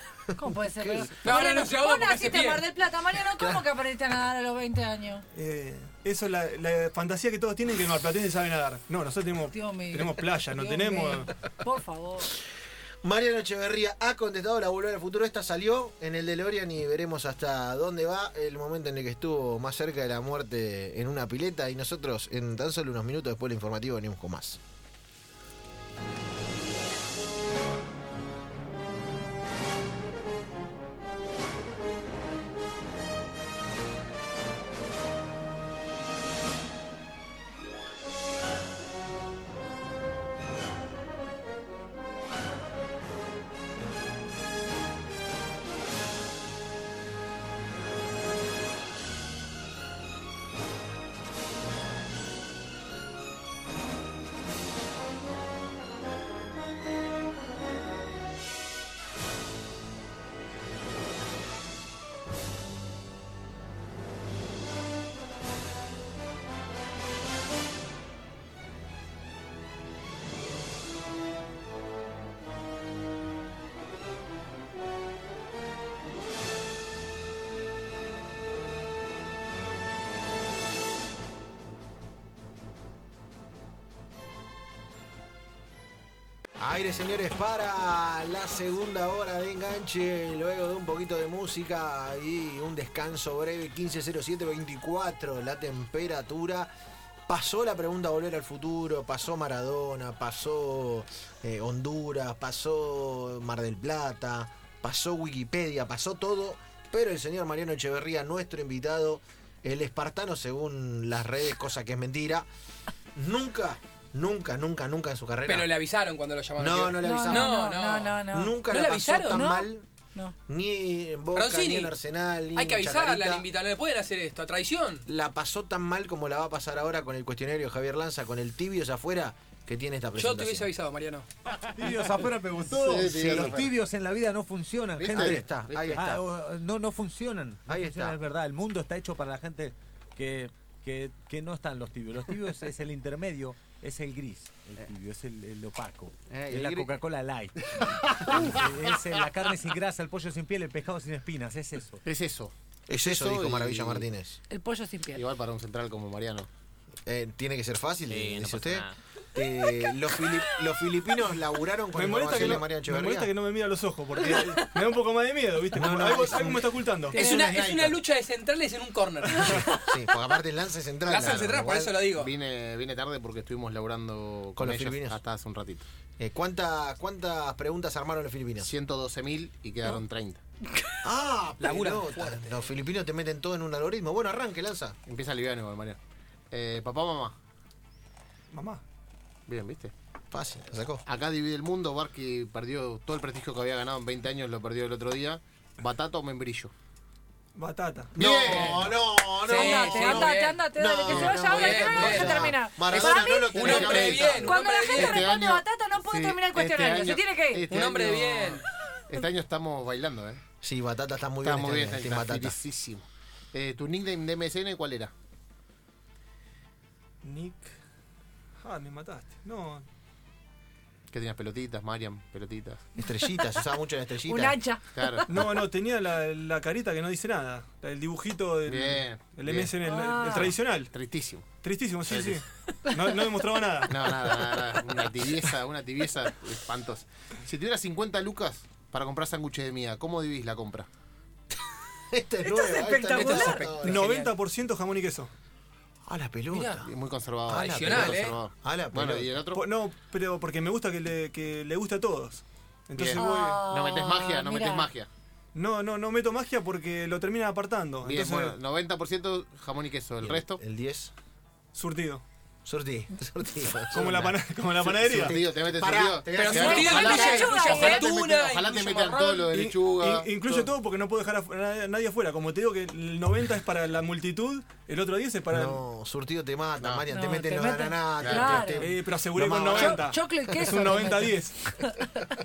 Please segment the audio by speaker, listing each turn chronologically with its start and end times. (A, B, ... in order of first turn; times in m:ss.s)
0:00.3-0:01.1 A
0:00.4-0:05.2 B
0:01.2-0:02.6 C
0:05.3-0:11.3 D
0:09.5-0:12.3 B
0:13.0-0:24.6 A
1:26.6-1:36.7 A
1:37.3-1:52.5 A
1:53.1-1:55.7 A
1:55.5-1:59.5 C
1:56.6-1:57.5 A
1:57.0-1:58.6 B
1:58.3-1:59.8 A
1:59.3-2:00.3 B
2:00.5-2:03.4 A
2:01.3-2:01.9 C
2:02.5-2:05.0 C
2:05.0-2:10.7 A
2:10.2-2:11.3 C
2:11.5-2:32.0 E
2:12.7-2:13.7 F
2:13.1-2:13.6 A
2:15.0-2:15.6 F
2:15.1-2:16.2 A
2:17.7-2:18.2 A
2:26.4-2:26.9 A
2:32.0-2:34.1 F
2:32.9-2:34.4 A
2:34.5-2:35.2 B
2:35.1-2:36.5 F
2:37.0-2:43.3 A
2:38.1-2:39.0 F
2:41.9-2:47.2 D
2:44.2-2:44.6 B
2:45.7-2:48.0 A
2:47.1-2:47.5 B
2:47.1-2:49.8 C
2:49.3-2:49.7 D
2:49.4-2:52.0 A
2:51.1-2:52.3 C
2:52.0-2:55.8 F
2:54.6-2:55.2 A
2:56.2-2:58.7 A
2:58.6-3:00.4 F
3:00.7-3:00.9 B
3:01.0-3:05.0 A
3:01.6-3:02.5 C
3:05.0-3:06.0 F
3:06.5-3:07.4 F
3:08.5-3:08.8 D
3:09.5-3:09.9 F
3:10.3-3:11.0 A
3:11.0-3:16.7 F
3:17.5-3:18.2 D
3:18.1-3:19.0 F
3:18.1-3:24.6 A
3:18.3-3:18.9 C
3:19.4-3:20.6 C
3:19.4-3:27.7 B
3:21.1-3:21.5 F
3:21.2-3:25.3 C
3:23.5-3:30.4 F
3:27.7-3:28.6 C
3:30.6-3:32.6 A
3:31.4-3:35.1 F
3:37.2-3:37.8 D
3:38.6-3:39.8 D
3:41.1-3:42.9 F
3:43.0-3:44.6 A
3:43.1-3:43.6 B
3:44.2-3:45.2 B
3:44.9-3:45.2 F
3:45.3-3:50.9 D
3:48.6-3:51.5 F
3:49.8-3:50.5 B
3:51.5-3:54.2 D
3:52.0-3:52.4 F
3:52.8-3:53.5 B
3:53.9-4:00.9 F
4:02.1-4:04.2 A
4:02.4-4:03.7 B
4:03.2-4:04.3 C
4:03.6-4:05.3 D
4:06.1-4:06.9 A
4:06.5-4:06.8 C
4:06.8-4:09.6 F
4:07.4-4:09.3 A
4:07.7-4:08.4 C
4:09.5-4:13.6 D
4:13.0-4:15.1 F
4:13.1-4:14.9 B
4:15.5-4:18.6 D
4:18.0-4:20.6 F
4:20.2-4:21.1 A
4:21.7-4:22.2 D
4:22.6-4:24.4 A
4:23.9-4:25.4 D
4:24.8-4:30.7 F
4:25.1-4:27.5 A
4:26.3-4:29.5 C
4:26.6-4:28.1 B
4:29.5-4:35.8 D
4:35.5-4:40.0 A
4:36.8-4:37.0 F
4:37.1-4:38.9 B
4:38.2-4:38.7 F
4:38.8-4:41.7 D
4:39.7-4:42.3 B